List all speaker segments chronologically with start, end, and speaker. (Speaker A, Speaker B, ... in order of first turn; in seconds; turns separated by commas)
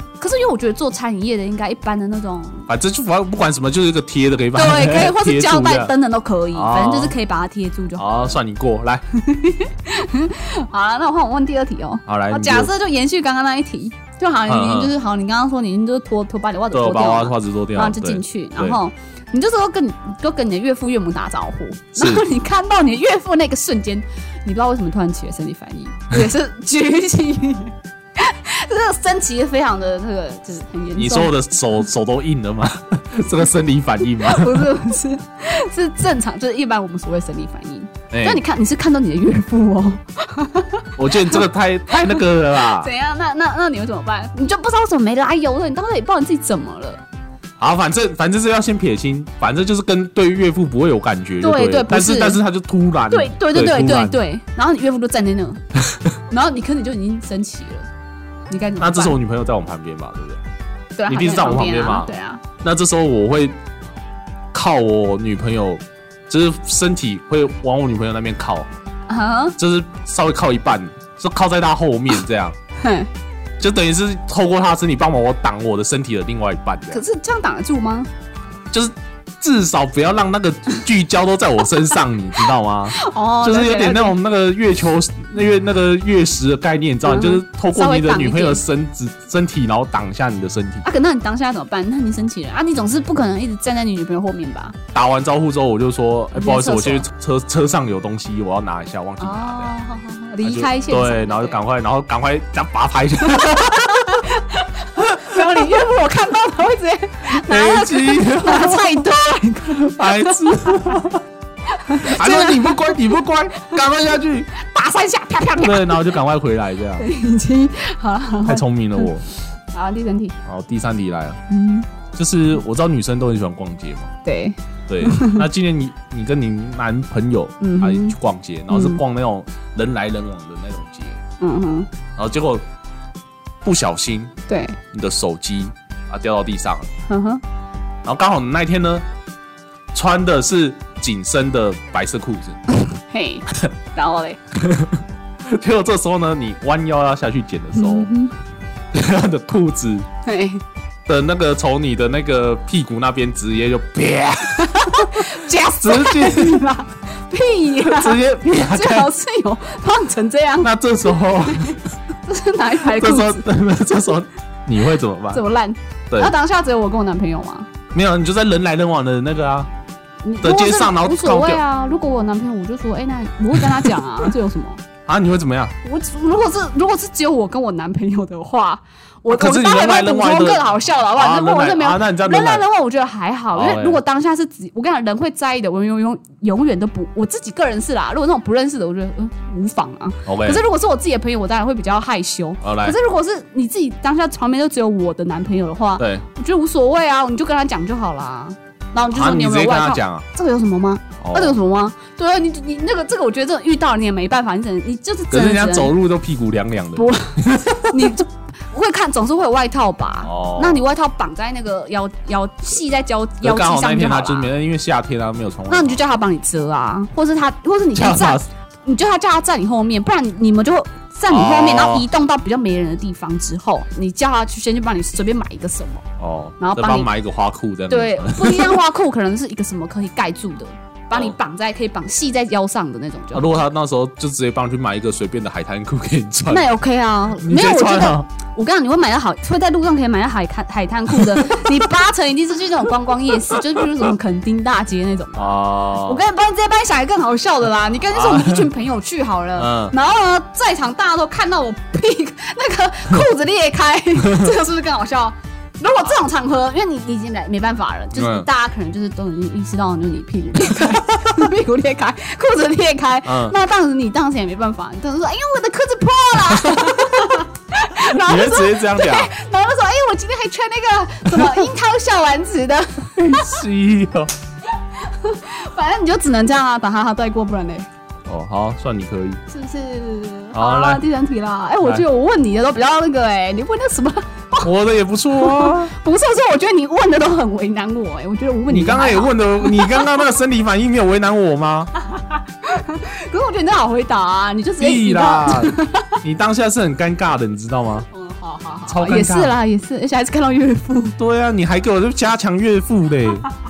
Speaker A: 0.2-2.7, Speaker B: 2.7-5.9, Speaker A: 4.5-8.4, Speaker B: 6.5-7.1, Speaker B: 8.0-9.0, Speaker A: 9.2-31.4, Speaker B: 12.1-12.7, Speaker B: 14.5-14.9, Speaker B: 16.7-18.8, Speaker B: 21.9-22.2, Speaker B: 30.9-34.7, Speaker A: 34.2-41.4, Speaker B: 38.1-38.4, Speaker B: 41.0-42.9, Speaker A: 42.0-47.0, Speaker B: 47.6-54.2, Speaker A: 51.4-52.4, Speaker A: 53.1-55.6, Speaker A: 56.3-57.9, Speaker A: 58.5-59.1, Speaker B: 58.8-60.4, Speaker A: 61.0-62.4, Speaker B: 61.1-62.1, Speaker B: 62.6-63.5, Speaker B: 64.5-68.7, Speaker A: 69.1-69.5, Speaker B: 69.6-72.5, Speaker A: 72.8-73.1, Speaker B: 73.6-77.0, Speaker A: 76.9-78.1, Speaker B: 78.7-90.8, Speaker A: 82.9-84.2, Speaker A: 87.0-88.6, Speaker A: 90.8-94.8, Speaker B: 94.9-99.7, Speaker A: 96.3-97.0, Speaker A: 99.2-101.6, Speaker B: 100.4-104.1, Speaker A: 103.2-110.8, Speaker B: 105.0-105.8, Speaker B: 107.3-109.1, Speaker B: 109.6-111.2, Speaker A: 111.7-113.0, Speaker B: 112.0-114.5, Speaker A: 114.5-116.1, Speaker B: 115.6-117.1, Speaker A: 117.0-119.2, Speaker B: 118.4-119.2, Speaker A: 119.7-120.3, Speaker B: 120.5-121.4, Speaker A: 121.5-121.9, Speaker B: 122.1-124.1, Speaker A: 124.2-125.4, Speaker B: 124.9-131.2, Speaker A: 127.6-128.2, Speaker A: 128.7-129.0, Speaker A: 131.4-131.9, Speaker B: 132.2-132.6, Speaker B: 133.6-134.3, Speaker A: 134.5-134.8, Speaker B: 134.9-136.9, Speaker A: 137.1-137.4, Speaker B: 138.0-139.0, Speaker B: 139.9-142.6, Speaker A: 142.8-144.4, Speaker B: 144.5-148.1, Speaker A: 147.7-148.3, Speaker B: 148.9-150.1, Speaker A: 150.2-150.6, Speaker B: 151.1-155.3, Speaker A: 154.6-163.4, Speaker B: 155.8-156.6, Speaker B: 157.8-159.1, Speaker B: 160.6-161.8, Speaker B: 162.9-165.4, Speaker A: 165.3-167.7, Speaker B: 167.9-169.7, Speaker A: 170.2-174.8, Speaker B: 170.4-171.6, Speaker B: 173.6-174.3, Speaker B: 175.1-175.7, Speaker A: 175.8-205.9, Speaker B: 179.3-182.6, Speaker B: 183.5-184.0, Speaker B: 190.2-190.6, Speaker B: 192.6-193.0, Speaker B: 196.0-196.2, Speaker B: 199.1-200.2, Speaker B: 201.2-201.6, Speaker B: 205.3-208.1, Speaker A: 206.9-214.5, Speaker B: 210.2-210.8, Speaker B: 213.4-216.0, Speaker A: 215.7-226.0, Speaker B: 217.9-218.5, Speaker B: 221.3-222.1, Speaker B: 226.2-228.8, Speaker A: 226.6-227.1, Speaker A: 227.9-233.6, Speaker B: 233.3-236.7, Speaker A: 236.5-273.6, Speaker B: 237.4-238.3, Speaker B: 245.3-246.2, Speaker B: 248.1-248.7, Speaker B: 249.6-249.9, Speaker B: 254.2-254.5, Speaker B: 258.1-258.5, Speaker B: 263.2-263.6, Speaker B: 266.7-267.0, Speaker B: 268.0-269.3, Speaker B: 273.1-274.3, Speaker A: 274.8-277.9, Speaker B: 278.2-279.4, Speaker A: 279.5-284.7, Speaker B: 280.5-281.0, Speaker B: 284.6-285.9, Speaker A: 285.3-290.1, Speaker B: 288.7-291.9, Speaker A: 292.1-296.1, Speaker B: 294.8-298.1, Speaker A: 298.1-301.2, Speaker B: 298.9-299.6, Speaker B: 301.2-303.5